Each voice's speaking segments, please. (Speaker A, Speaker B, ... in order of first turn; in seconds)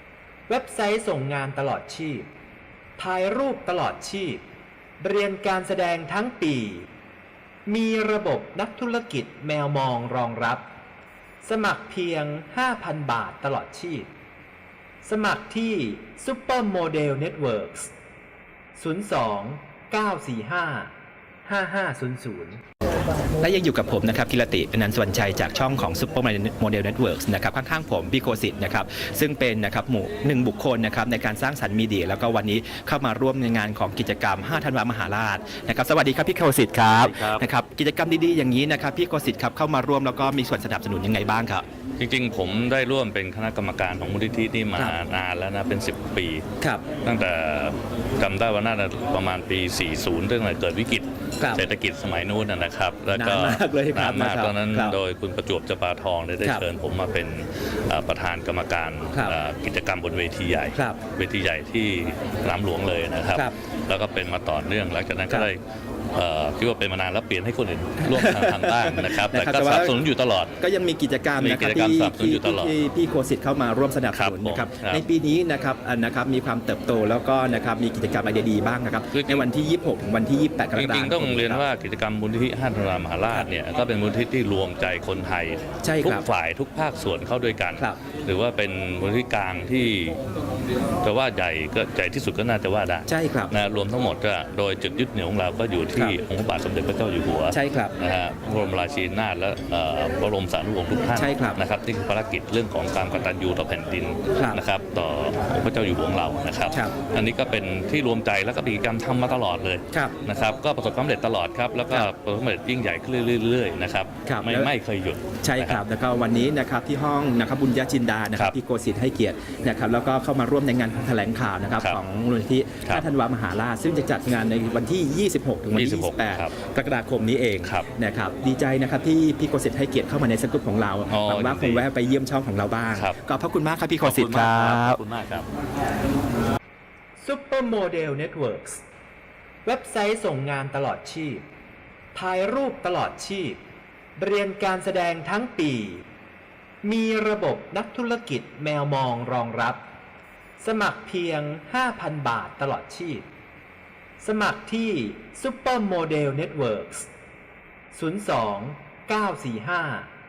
Speaker A: 0.5-2.3, 3.0-4.4, 5.0-6.9, 7.7-10.6, 11.4-14.1, 15.0-17.9, 18.8-20.9, 21.4-22.6, 137.2-138.8, 139.6-141.4, 142.1-143.6, 144.2-146.0, 146.8-149.8, 150.6-153.2, 154.2-157.1, 157.9-160.1
Speaker B: 23.2-41.6, 46.6-46.9, 51.4-51.6, 53.1-55.0, 59.1-59.4, 60.7-61.0, 68.0-70.0, 70.6-81.6, 85.8-86.2, 93.1-93.5, 97.5-98.0, 101.1-101.6, 104.3-104.6, 114.2-114.7, 115.4-135.0
Speaker C: 37.0-37.4, 42.0-46.4, 47.0-65.6, 66.1-70.5, 71.4-72.7, 74.1-75.0, 79.1-79.5, 80.7-90.2, 91.0-115.8, 125.7-126.5, 127.6-127.9, 131.1-131.8, 134.0-135.5